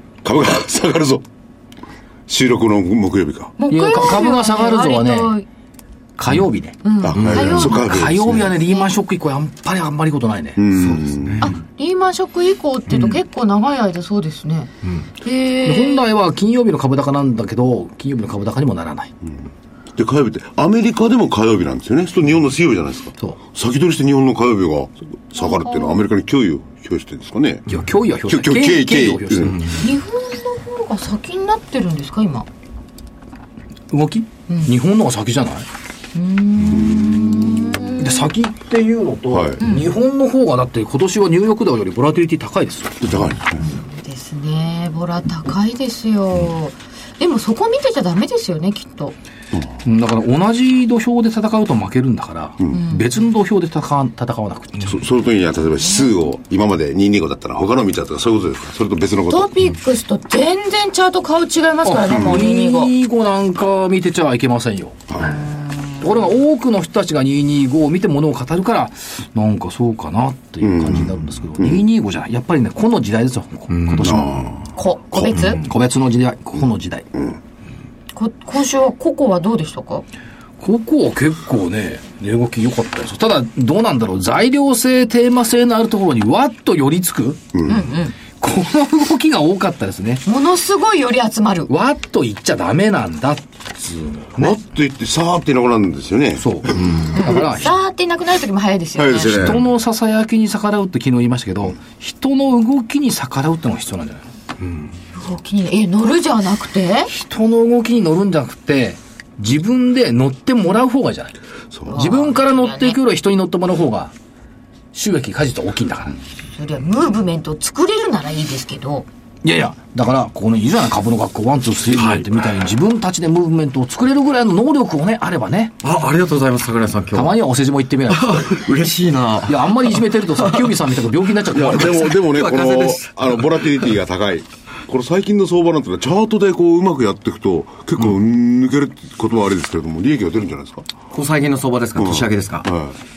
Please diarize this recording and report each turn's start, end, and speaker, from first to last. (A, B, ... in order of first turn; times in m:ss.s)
0:00.2-0:01.2 A
0:02.3-0:03.5 A
0:03.6-0:05.5 B
0:03.7-0:05.3 C
0:06.2-0:06.8 C
0:06.8-0:08.9 B
0:07.0-0:08.5 A
0:07.2-0:07.7 D
0:07.5-0:10.6 C
0:10.6-0:11.5 A
0:10.8-0:11.5 D
0:11.4-0:16.0 B
0:15.6-0:19.1 C
0:20.0-0:27.7 A
0:25.4-0:26.0 B
0:27.7-0:29.6 C
0:28.3-0:29.7 A
0:29.8-0:32.5 B
0:33.9-0:35.7 C
0:36.2-0:38.3 B
0:36.7-0:37.6 A
0:37.9-0:43.1 C
0:39.3-0:39.6 A
0:39.6-0:39.9 B
0:43.0-0:43.6 A
0:43.6-0:49.2 B
0:49.8-0:55.0 C
0:52.7-0:53.2 B
0:54.8-0:59.5 A
0:59.3-1:02.9 B
1:01.8-1:05.2 C
1:05.1-1:05.4 A
1:05.2-1:06.0 B
1:06.0-1:14.5 C
1:10.6-1:11.8 A
1:13.8-1:14.1 D
1:14.0-1:15.4 A
1:14.8-1:15.6 B
1:15.5-1:17.1 C
1:18.1-1:20.0 B
1:20.6-1:27.6 C
1:27.5-1:27.8 A
1:27.7-1:28.2 B
1:28.3-1:30.2 C
1:30.2-1:31.7 B
1:31.7-1:34.6 C
1:34.4-1:37.1 A
1:36.4-1:37.7 C
1:37.1-1:39.3 B
1:39.0-1:39.6 A
1:39.3-1:44.3 C
1:45.1-1:47.1 B
1:47.1-1:51.3 C
1:51.8-1:53.0 B
1:51.9-1:54.1 C
1:54.9-1:56.2 C
1:56.5-1:59.1 B
1:59.4-2:05.7 C
2:02.0-2:02.2 D
2:05.8-2:07.4 D
2:07.1-2:08.7 C
2:08.1-2:10.8 D
2:09.5-2:12.2 C
2:11.5-2:20.9 A
2:11.5-2:13.8 D
2:21.1-2:22.7 D
2:22.0-2:23.0 A